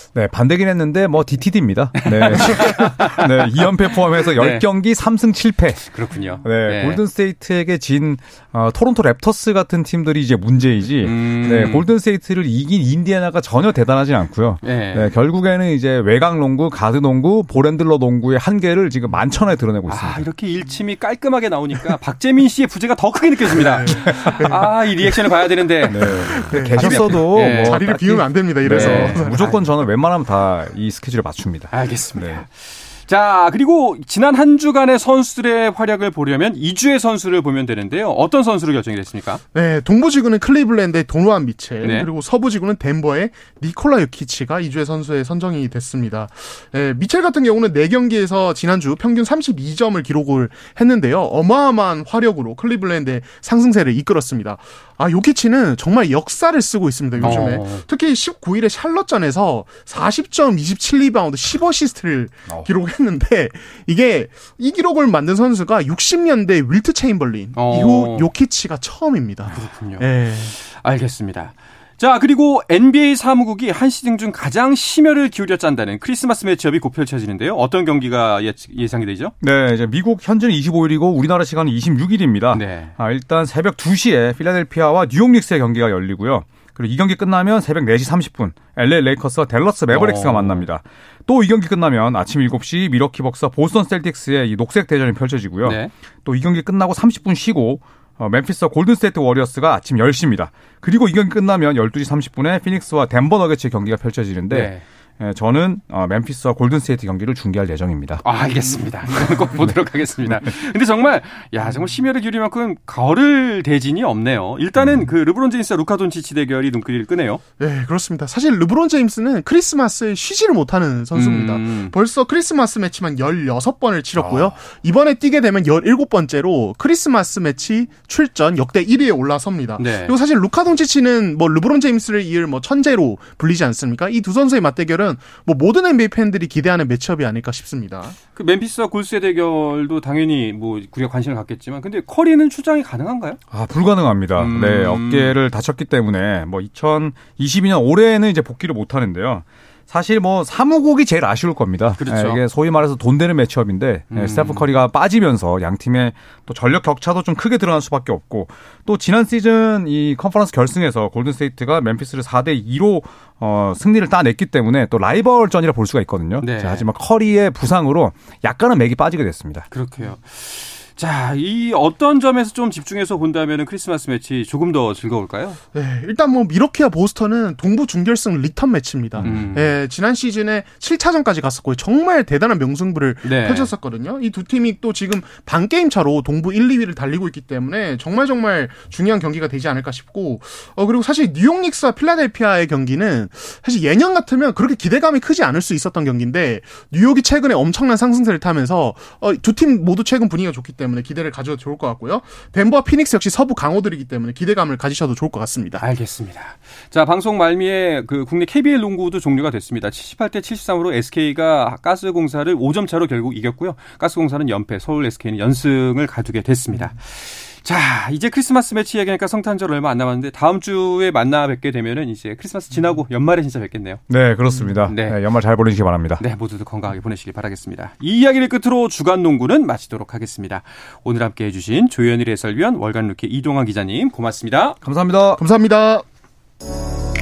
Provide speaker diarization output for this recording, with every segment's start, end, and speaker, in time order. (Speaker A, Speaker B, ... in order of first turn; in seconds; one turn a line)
Speaker A: 0.1-5.9
Speaker B: 2.0-3.5
Speaker B: 4.2-4.6
Speaker B: 5.9-7.0
Speaker A: 6.4-20.2
Speaker B: 11.0-11.8
Speaker B: 14.6-15.1
Speaker B: 19.9-27.8
Speaker C: 23.5-25.2
Speaker A: 25.9-32.4
Speaker C: 26.1-29.6
Speaker B: 28.7-29.6
Speaker B: 31.7-39.4
Speaker C: 39.5-70.5
Speaker B: 41.8-42.1
Speaker B: 57.2-57.8
Speaker B: 67.5-68.3
Speaker B: 69.5-79.3
Speaker A: 79.4-108.2
Speaker B: 82.5-82.9
Speaker B: 89.9-90.6
Speaker B: 95.6-95.9
Speaker B: 104.5-104.8
Speaker B: 108.2-117.4
Speaker A: 114.8-115.1
Speaker C: 117.6-138.2
Speaker B: 121.1-121.9
Speaker B: 124.2-124.5
Speaker B: 129.8-130.2
Speaker B: 138.3-143.4
Speaker A: 143.5-169.7
Speaker B: 144.4-145.3
Speaker B: 152.0-152.4
Speaker B: 154.1-154.7
Speaker B: 166.4-166.9
Speaker B: 169.7-175.6
Speaker C: 175.7-205.8
Speaker B: 179.2-179.7
Speaker B: 183.2-183.7
Speaker B: 205.8-224.0
Speaker A: 224.1-226.2
Speaker B: 224.8-225.2
Speaker B: 226.2-234.8
Speaker A: 234.8-235.4
Speaker C: 235.4-236.0